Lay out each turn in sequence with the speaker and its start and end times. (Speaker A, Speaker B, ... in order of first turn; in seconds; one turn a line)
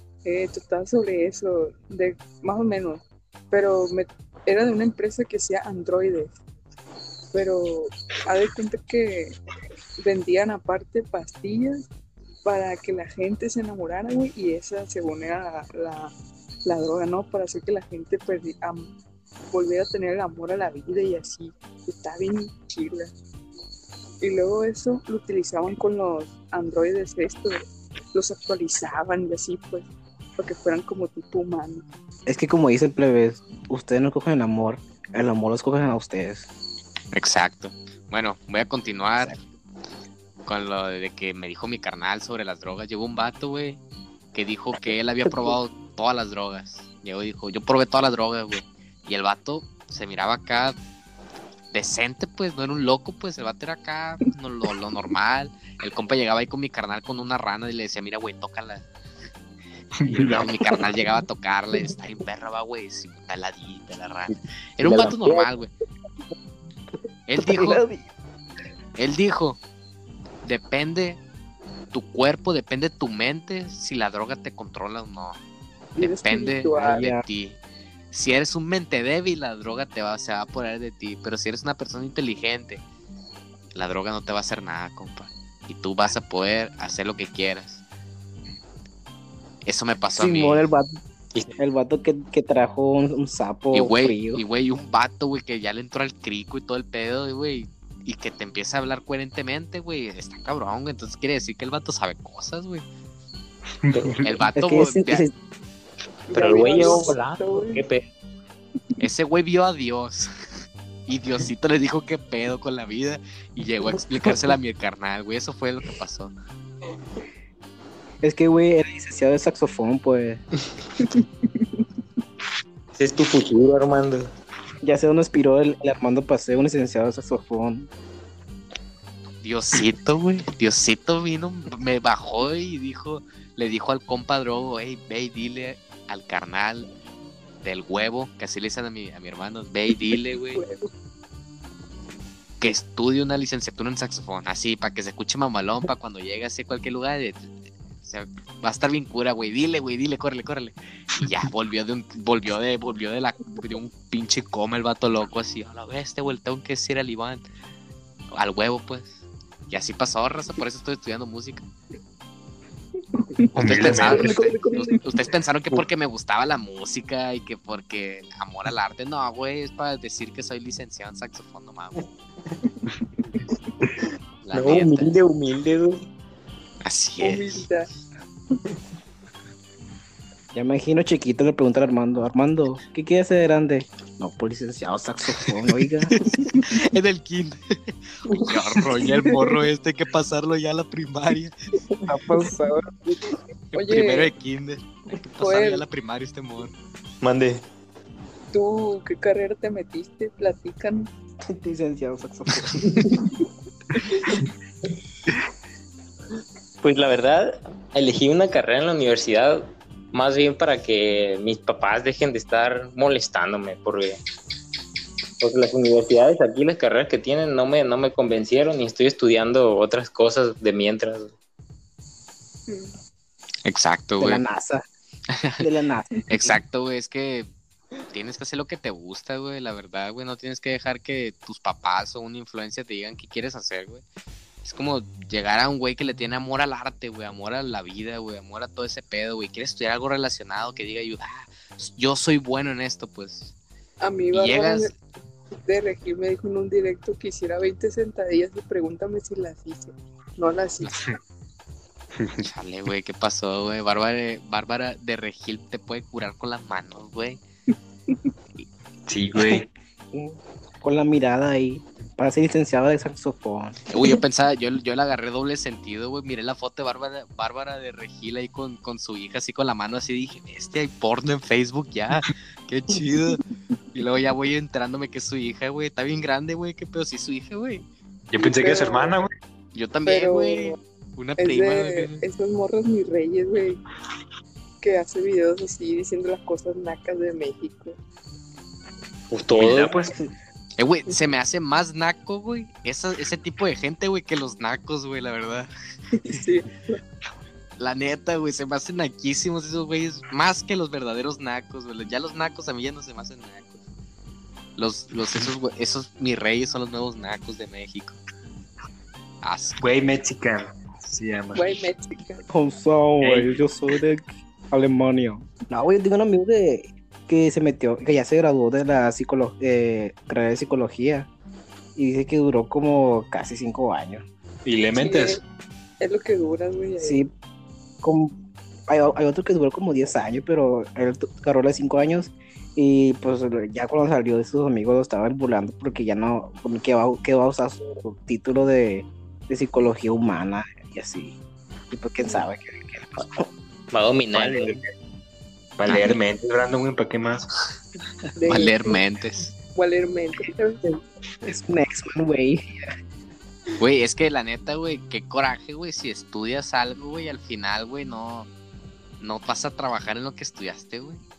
Speaker A: 0.2-6.3
Speaker A: 7.3-9.4
Speaker A: 10.0-11.9
Speaker A: 12.4-16.1
Speaker A: 16.6-18.9
Speaker A: 19.5-23.1
Speaker A: 24.2-31.8
Speaker B: 32.2-36.5
Speaker C: 37.1-39.4
Speaker C: 40.5-43.8
Speaker C: 44.3-50.8
Speaker B: 45.3-45.5
Speaker C: 51.7-58.9
Speaker D: 60.0-60.8
Speaker C: 60.1-65.7
Speaker E: 64.3-65.5
Speaker C: 67.3-67.8
Speaker B: 67.4-68.0
Speaker C: 69.0-69.6
Speaker C: 70.4-71.2
Speaker C: 71.9-75.4
Speaker A: 76.0-77.0
Speaker C: 76.0-77.6
Speaker B: 76.8-77.2
Speaker C: 78.1-82.8
Speaker C: 83.7-87.8
Speaker C: 89.6-90.7
Speaker B: 90.2-90.9
Speaker B: 91.6-94.4
Speaker C: 93.7-102.8
Speaker D: 103.8-104.4
Speaker E: 103.9-104.3
Speaker C: 104.2-105.2
Speaker B: 104.5-105.3
Speaker A: 106.3-107.8
Speaker E: 106.3-108.1
Speaker C: 109.0-110.3
Speaker C: 111.1-116.3
Speaker B: 118.2-120.4
Speaker A: 121.0-121.8
Speaker E: 123.0-124.3
Speaker B: 124.8-127.9
Speaker C: 129.4-136.9
Speaker C: 137.6-140.6
Speaker A: 140.1-140.9
Speaker C: 142.6-157.4
Speaker C: 158.3-161.6
Speaker A: 163.4-164.9
Speaker C: 163.5-172.0
Speaker D: 163.6-164.3
Speaker B: 163.9-165.0
Speaker C: 174.4-175.1
Speaker E: 174.5-176.0
Speaker C: 176.8-177.6
Speaker A: 177.2-177.9
Speaker B: 180.5-186.1
Speaker C: 186.1-191.5
Speaker A: 189.0-189.6
Speaker B: 192.1-193.0
Speaker A: 193.7-194.3
Speaker C: 193.7-196.8
Speaker A: 195.4-195.8
Speaker D: 197.2-197.6
Speaker A: 198.5-201.1
Speaker B: 201.4-203.1
Speaker C: 202.6-202.9
Speaker E: 202.9-203.2
Speaker E: 206.8-214.2
Speaker E: 215.4-221.3
Speaker A: 222.7-222.9
Speaker C: 223.6-224.4
Speaker B: 224.2-224.8
Speaker C: 225.4-225.6
Speaker B: 225.6-226.6
Speaker C: 226.3-227.5
Speaker C: 228.1-234.0
Speaker C: 234.6-243.5
Speaker A: 244.0-244.9
Speaker C: 244.3-244.9
Speaker A: 245.6-251.0
Speaker D: 252.2-252.4
Speaker C: 252.4-257.4
Speaker D: 259.1-259.7
Speaker B: 260.1-263.8
Speaker C: 263.9-273.4
Speaker C: 273.9-277.8
Speaker D: 278.3-279.3
Speaker A: 278.4-279.1
Speaker C: 279.7-282.2
Speaker A: 280.1-280.8
Speaker A: 281.4-283.8
Speaker A: 284.8-288.0
Speaker E: 289.3-290.0
Speaker D: 289.6-290.1
Speaker C: 290.8-295.7
Speaker A: 296.1-297.0
Speaker C: 297.8-303.8
Speaker C: 304.8-308.2
Speaker C: 309.4-309.8
Speaker D: 309.8-311.6
Speaker A: 311.5-312.4
Speaker B: 312.5-321.3
Speaker D: 313.2-313.6
Speaker B: 321.9-324.2
Speaker D: 324.6-325.4
Speaker A: 324.9-325.4
Speaker A: 326.0-327.3
Speaker B: 327.0-327.3
Speaker B: 328.0-328.4
Speaker B: 328.9-341.4
Speaker B: 341.9-343.4
Speaker E: 343.9-344.8
Speaker D: 344.3-344.8
Speaker D: 345.8-347.5
Speaker C: 345.9-346.2
Speaker A: 348.4-349.0
Speaker C: 348.5-349.5
Speaker A: 349.7-351.0
Speaker B: 351.4-352.9
Speaker C: 353.8-358.5
Speaker C: 359.2-361.2